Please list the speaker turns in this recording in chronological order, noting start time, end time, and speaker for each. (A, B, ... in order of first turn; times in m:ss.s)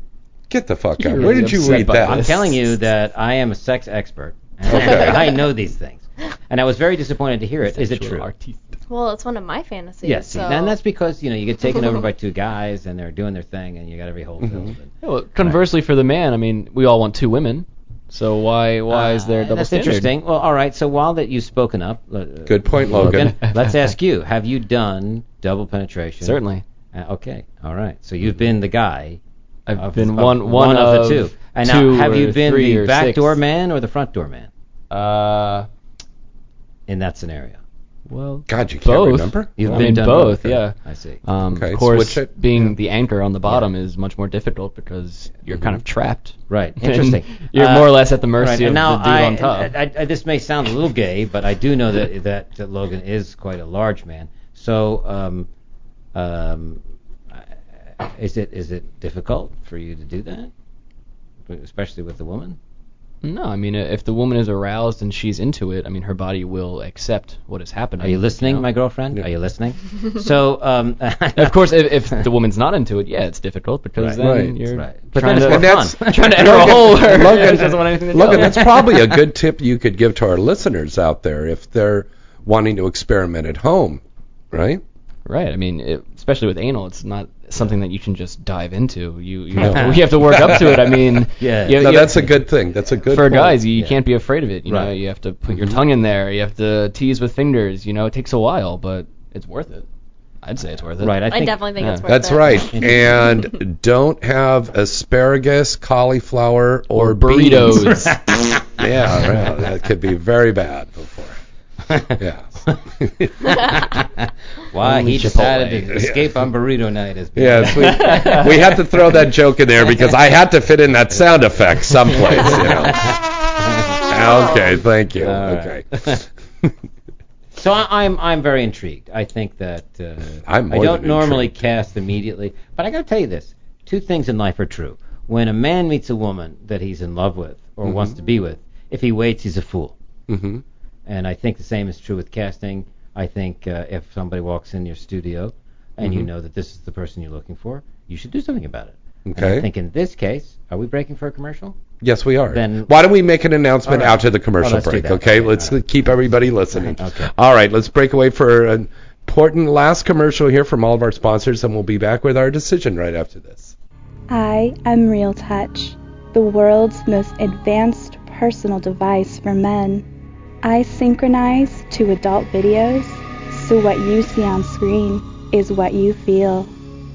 0:00.5-0:02.4 A
0:01.0-0:02.7 B
0:01.2-0:08.3 C
0:04.7-0:05.2 A
0:07.6-0:08.8 B
0:08.9-0:10.8 D
0:10.0-0:15.6 C
0:14.4-0:14.7 A
0:15.0-0:20.1 B
0:18.9-0:26.4 C
0:22.5-0:23.4 A
0:22.9-0:23.8 B
0:26.2-0:26.6 B
0:26.9-0:29.2 C
0:29.7-0:33.4 B
0:29.7-0:34.5 C
0:34.9-0:35.7 B
0:36.9-0:37.6 C
0:38.1-0:49.8 B
0:38.5-0:39.9 A
0:39.6-0:41.2 C
0:41.5-0:42.5 A
0:45.5-0:45.8 A
0:46.5-0:55.5 C
0:56.1-0:56.8 C
0:57.3-1:00.5 C
1:01.5-1:02.6 C
1:03.2-1:08.7 B
1:08.0-1:11.6 C
1:11.4-1:18.8 B
1:14.0-1:17.7 C
1:14.2-1:14.6 A
1:15.4-1:24.8 A
1:18.3-1:19.2 C
1:25.2-1:32.4 B
1:29.6-1:30.7 C
1:29.6-1:31.2 A
1:31.4-1:32.3 C
1:31.8-1:33.6 A
1:33.1-1:39.8 B
1:33.7-1:34.0 C
1:34.7-1:34.9 C
1:35.5-1:35.8 A
1:40.4-1:42.1 B
1:41.0-1:41.6 C
1:41.3-1:43.0 D
1:42.1-1:47.9 A
1:42.8-1:43.1 C
1:46.9-1:48.2 B
1:47.8-1:48.6 C
1:48.8-1:51.4 A
1:51.9-1:52.8 C
1:52.2-1:53.6 A
1:53.4-1:58.5 C
1:54.8-1:55.9 B
1:55.9-1:56.3 A
1:57.4-2:03.2 A
1:57.9-1:58.5 B
2:02.0-2:04.0 C
2:04.0-2:06.0 A
2:05.2-2:06.2 C
2:07.6-2:20.0 C
2:10.4-2:11.5 A
2:17.8-2:18.1 A
2:20.3-2:20.6 A
2:21.1-2:31.8 C
2:26.0-2:26.3 A
2:29.3-2:29.7 A
2:32.0-2:43.8 A
2:32.5-2:32.9 C
2:33.8-2:35.8 C
2:36.8-2:37.3 C
2:44.3-2:50.0 E
2:50.6-2:56.7 E